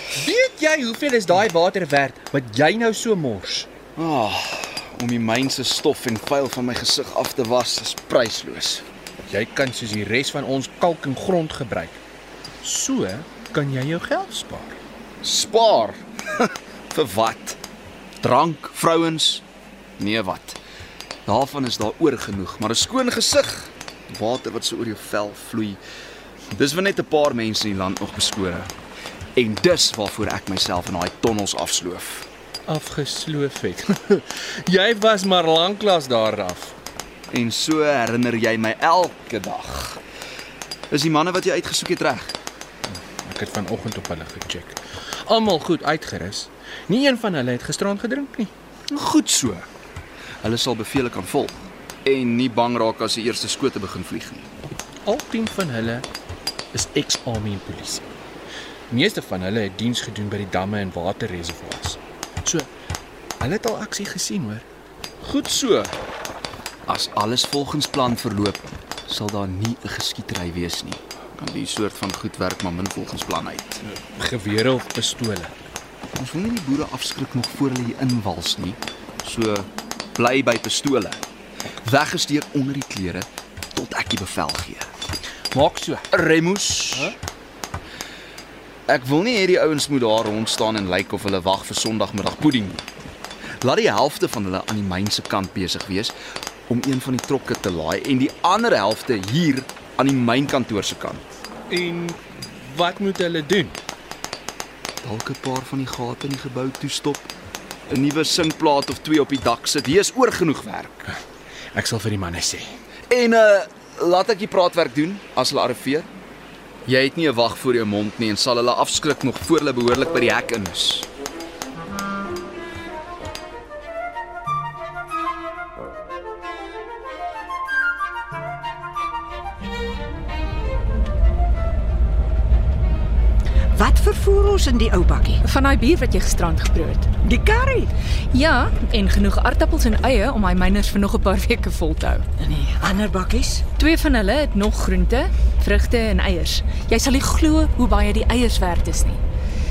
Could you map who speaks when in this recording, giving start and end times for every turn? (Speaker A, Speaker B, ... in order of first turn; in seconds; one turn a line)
Speaker A: 0.1-3.7
Speaker B: 4.0-8.8
Speaker A: 9.3-12.0
Speaker A: 12.6-14.8
Speaker B: 15.2-17.6
Speaker B: 18.2-19.4
Speaker B: 20.0-20.6
Speaker B: 21.3-25.8
Speaker B: 26.5-28.7
Speaker B: 29.4-32.2
Speaker A: 32.7-36.7
Speaker B: 37.3-40.0
Speaker B: 40.9-42.3
Speaker A: 43.2-48.5
Speaker B: 48.9-49.6
Speaker B: 50.4-54.5
Speaker A: 55.0-56.0
Speaker A: 56.7-58.1
Speaker A: 58.9-62.7
Speaker A: 63.4-64.6
Speaker B: 65.2-66.0
Speaker B: 66.9-73.8
Speaker A: 73.9-75.5
Speaker B: 76.2-81.2
Speaker B: 81.8-84.9
Speaker A: 85.5-86.0
Speaker B: 86.1-87.2
Speaker B: 88.9-92.8
Speaker B: 93.6-96.1
Speaker B: 96.7-101.2
Speaker A: 101.7-103.8
Speaker B: 105.0-107.3
Speaker B: 107.9-111.0
Speaker A: 111.7-112.7
Speaker B: 113.1-116.1
Speaker B: 116.8-121.1
Speaker C: 133.7-135.4
Speaker D: 135.4-137.1
Speaker C: 137.2-137.9
Speaker D: 138.3-142.2
Speaker C: 142.4-143.6
Speaker D: 143.7-149.2